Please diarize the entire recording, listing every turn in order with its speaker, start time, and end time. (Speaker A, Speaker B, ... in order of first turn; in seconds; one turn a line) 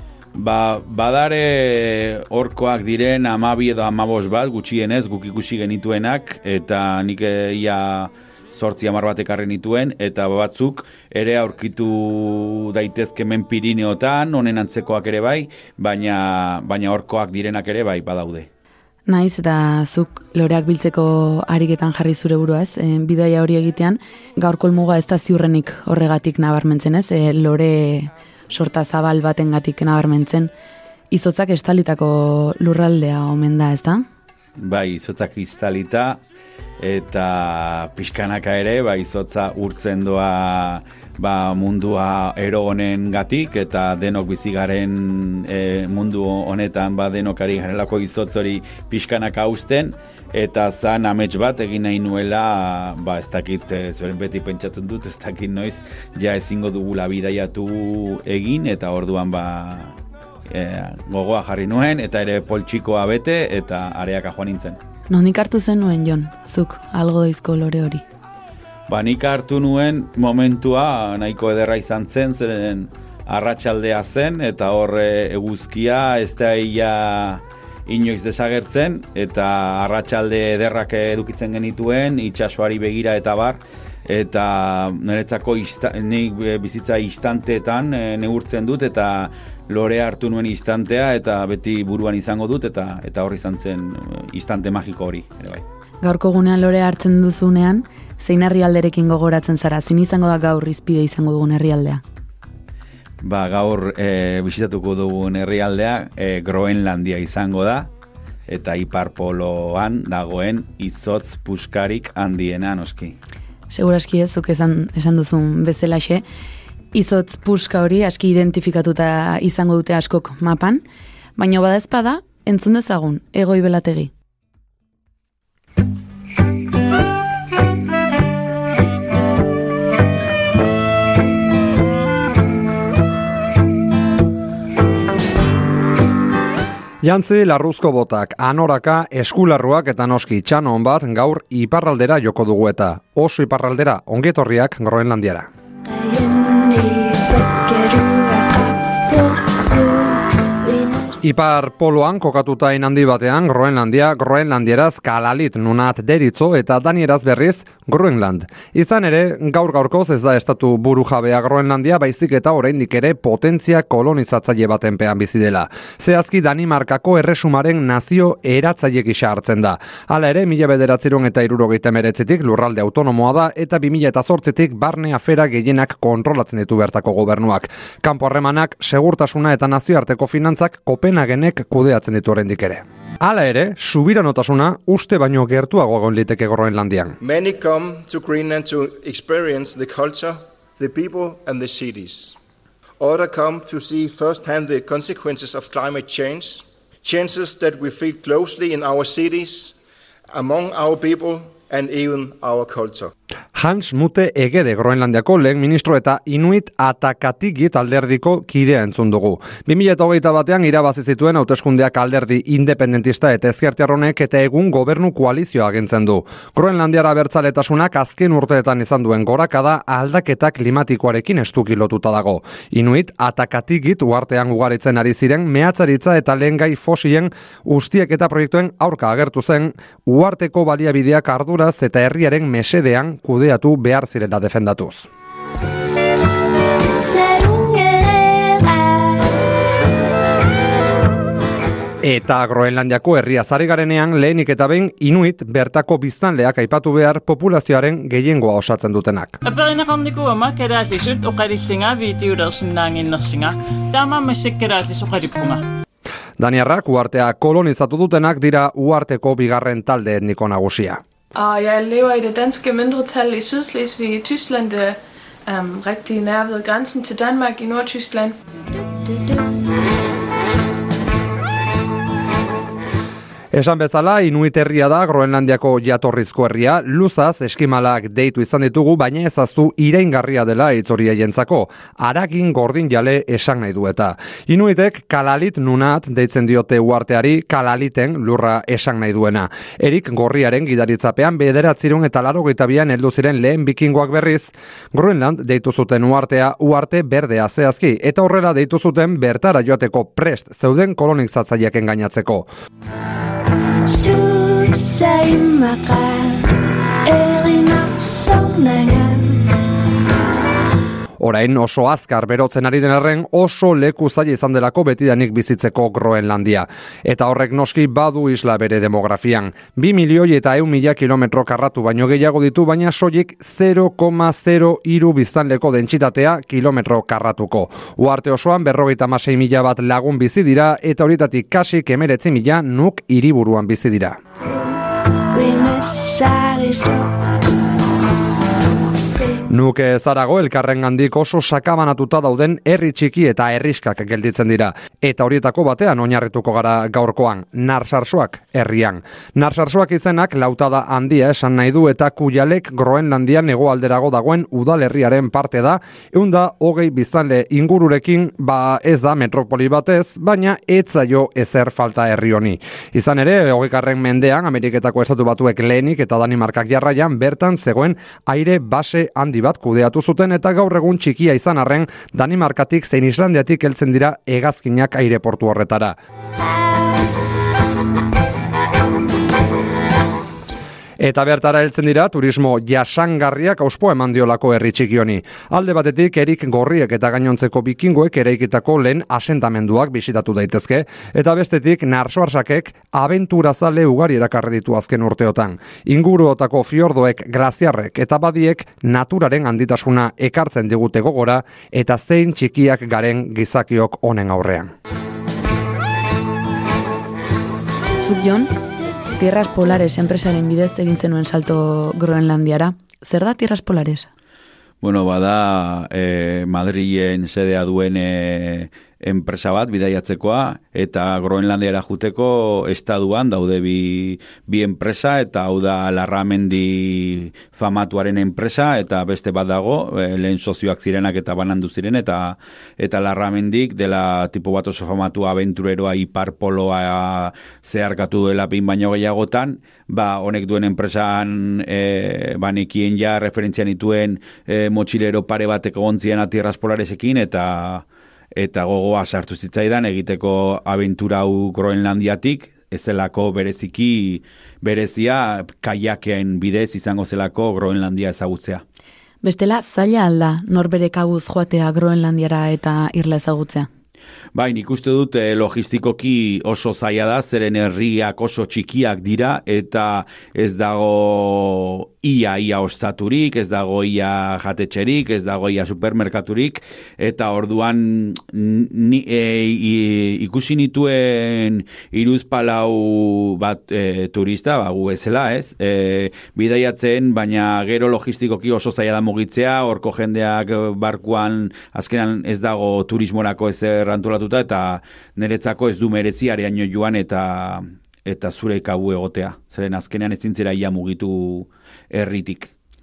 Speaker A: 0.3-18.5
Speaker B: 19.1-30.5
Speaker B: 31.1-34.0
Speaker A: 34.6-36.2
Speaker A: 36.8-59.9
Speaker A: 60.5-64.8
Speaker B: 65.1-68.0
Speaker A: 68.9-95.6
Speaker B: 96.0-102.0
Speaker A: 103.2-107.9
Speaker A: 108.5-113.2
Speaker B: 113.7-116.2
Speaker B: 116.9-120.8
Speaker B: 121.3-124.1
Speaker C: 137.0-145.5
Speaker D: 145.8-151.2
Speaker C: 151.2-187.2
Speaker E: 187.2-192.4
Speaker E: 193.0-199.8
Speaker E: 200.3-203.1
Speaker C: 203.5-235.1
Speaker D: 237.1-239.1
Speaker C: 242.0-249.4
Speaker F: 249.4-255.6
Speaker C: 256.4-261.0
Speaker G: 261.4-268.4
Speaker D: 268.9-269.2
Speaker C: 273.5-302.5
Speaker D: 303.9-306.5
Speaker D: 307.0-309.5
Speaker C: 311.2-334.2
Speaker D: 335.3-337.2
Speaker C: 339.5-376.0
Speaker C: 381.0-404.7
Speaker B: 408.0-408.5
Speaker B: 409.2-414.1
Speaker A: 414.8-458.6
Speaker B: 459.2-463.7
Speaker A: 464.4-502.5